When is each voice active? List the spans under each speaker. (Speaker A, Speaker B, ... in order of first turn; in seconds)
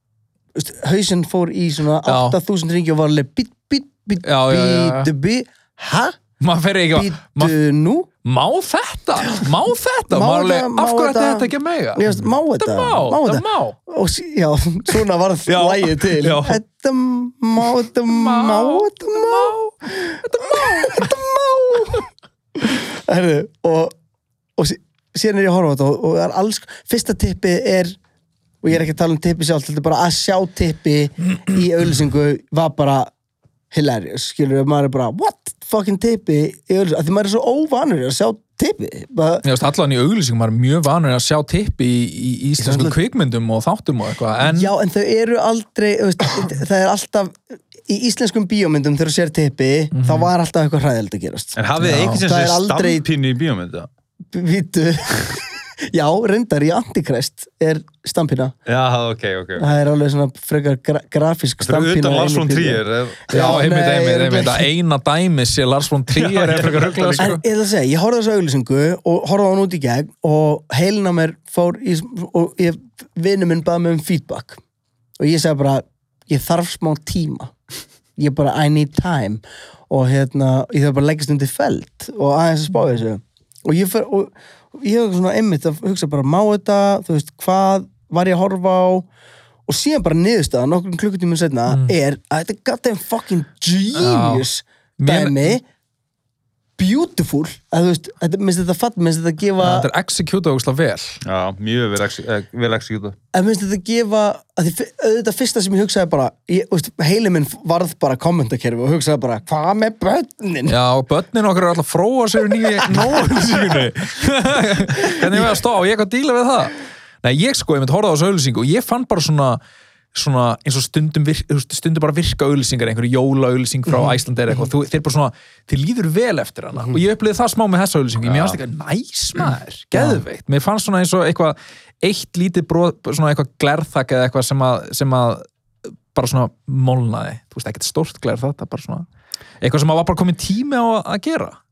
Speaker A: 0.5-6.2, 6.9-8.1, 10.1-23.9, 24.6-28.0, 28.6-33.1, 33.7-39.5, 42.6-43.0, 44.4-51.6, 52.1-53.0, 54.3-58.5, 59.6-64.7, 67.2-74.6, 75.2-77.5, 78.2-89.0, 89.7-95.6, 96.8-99.9, 103.3-110.8, 115.0-115.5, 123.9-124.2
Speaker B: 2.0-2.4, 4.2-5.1, 6.4-7.5, 8.2-13.8, 15.5-16.6, 18.1-21.1, 39.4-44.7, 49.9-50.3, 51.8-52.2, 63.3-67.4, 91.7-91.9, 93.9-94.5, 95.0-95.6, 99.6-101.2, 110.7-119.6, 120.1-135.4, 136.1-139.0, 139.6-141.6
Speaker C: 51.6-53.9, 58.6-59.7, 61.6-63.6, 66.1-67.3, 101.2-103.2, 128.2-128.6